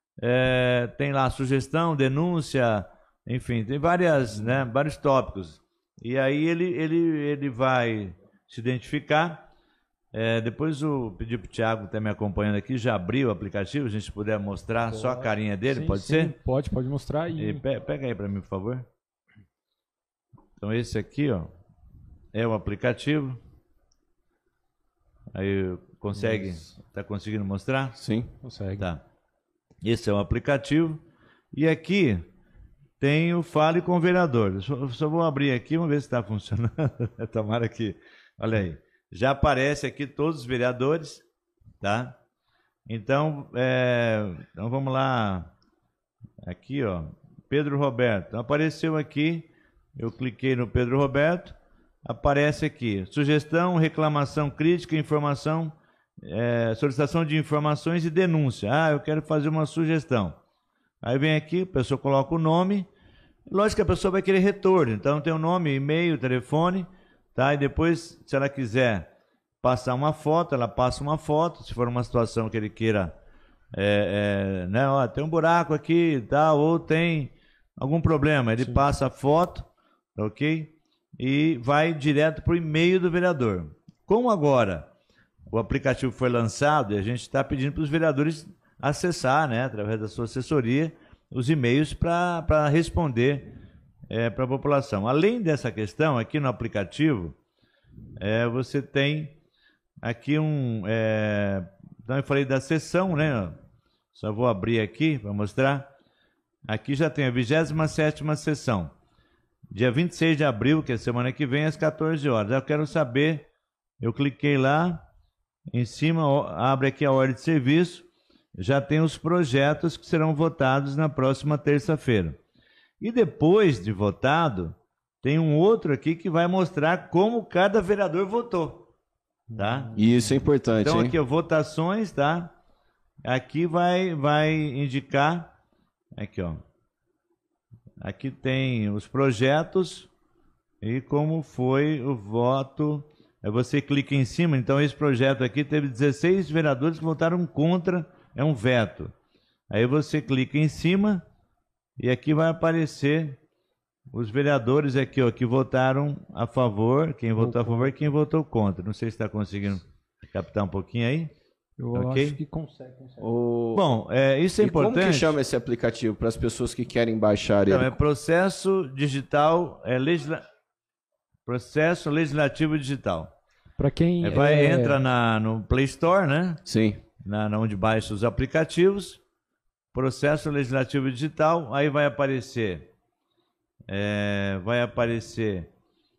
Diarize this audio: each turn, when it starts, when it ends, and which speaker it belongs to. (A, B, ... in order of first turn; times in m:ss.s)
0:00.2-0:09.5 A
0:10.1-0:16.3 A
0:15.1-0:17.6 B
0:17.4-0:18.8 A
0:20.6-0:21.5 A
0:22.3-0:23.4 A
0:25.3-0:28.0 A
0:28.0-0:28.3 C
0:28.4-0:28.9 B
0:29.8-0:31.0 A
0:31.5-0:32.2 A
0:33.0-0:41.2 A
0:41.8-0:42.2 A
0:42.9-0:45.5 A
0:46.4-1:00.4 A
1:01.0-1:02.9 A
1:03.5-1:09.1 A
1:09.6-1:13.1 A
1:13.7-1:24.9 A
1:25.5-1:33.5 A
1:34.1-1:37.3 A
1:38.2-1:39.4 A
1:40.0-1:43.5 A
1:44.1-1:45.8 A
1:46.7-1:48.9 A
1:49.7-1:53.5 A
1:54.0-1:55.0 A
1:55.7-2:02.4 A
2:03.0-2:08.9 A
2:09.5-2:10.0 A
2:09.9-2:11.2 C
2:10.8-2:12.5 A
2:13.2-2:15.5 A
2:16.2-2:16.6 A
2:18.0-2:20.1 A
2:20.8-2:29.1 A
2:29.7-2:31.2 A
2:32.0-2:33.4 A
2:34.1-2:41.3 A
2:37.4-2:37.9 B
2:41.8-2:43.2 B
2:41.9-2:42.4 A
2:43.2-2:43.9 C
2:43.7-2:45.4 A
2:44.6-2:48.0 C
2:47.7-2:50.4 A
2:51.4-2:53.3 A
2:53.8-2:55.0 B
2:54.2-2:56.6 A
2:56.6-2:57.0 C
2:57.2-2:59.2 A
2:59.9-3:02.9 A
3:03.9-3:05.7 A